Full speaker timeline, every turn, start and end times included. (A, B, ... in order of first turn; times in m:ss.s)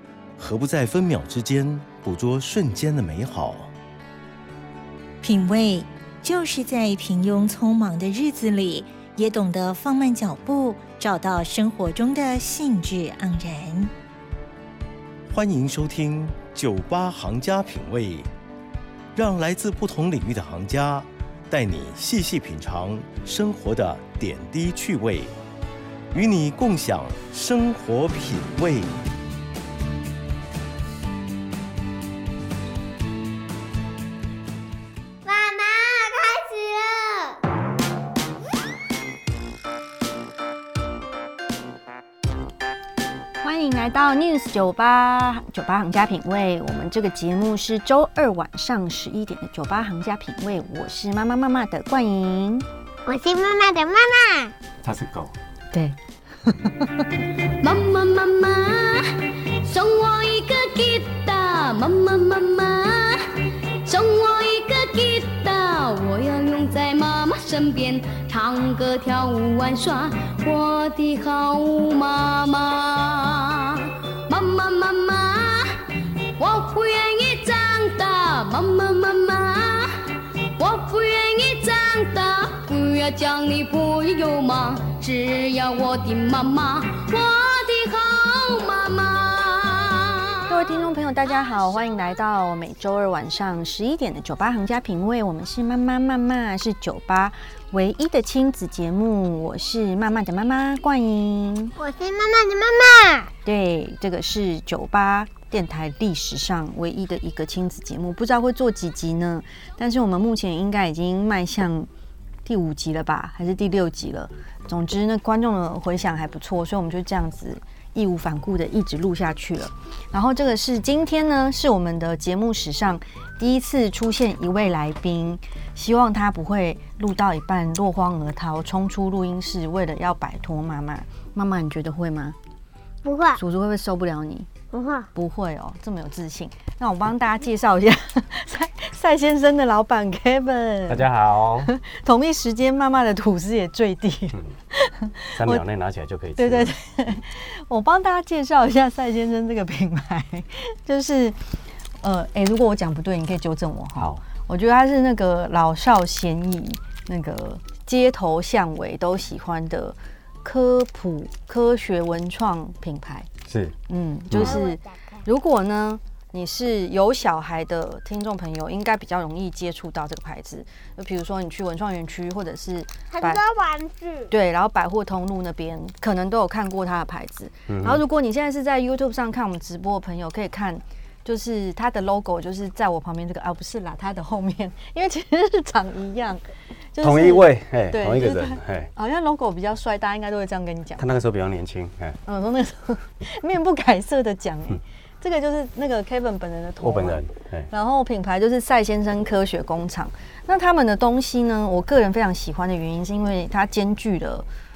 0:00.4-0:03.7 A
0:05.2-0:13.9 B
0:15.3-0:18.3 A
0:19.2-0:25.3 A
0:26.1-0:29.0 A
0:35.2-0:37.4 C
0:43.4-0:52.7 D
0:53.0-0:54.5 C
0:54.8-0:55.3 E
0:55.7-0:57.1 D
0:57.6-1:30.4 F
1:30.5-1:41.8 D
1:41.8-1:43.3 C
1:43.4-1:51.9 D
1:52.5-2:12.4 D
2:13.0-2:13.4 C
2:13.4-2:14.5 D
2:14.7-2:15.1 C
2:15.1-2:21.1 D
2:20.9-2:21.7 E
2:21.6-2:25.6 D
2:25.3-2:26.7 E
2:26.4-2:43.3 D
2:34.0-2:34.2 E
2:43.5-2:43.8 E
2:43.9-2:53.4 D
2:44.3-2:44.6 E
2:44.4-2:45.2 C
2:53.1-2:54.3 C
2:54.3-3:11.2 D
2:57.7-2:58.0 E
3:07.0-3:08.9 E
3:11.0-3:12.2 E
3:12.3-3:24.5 D
3:16.8-3:17.7 E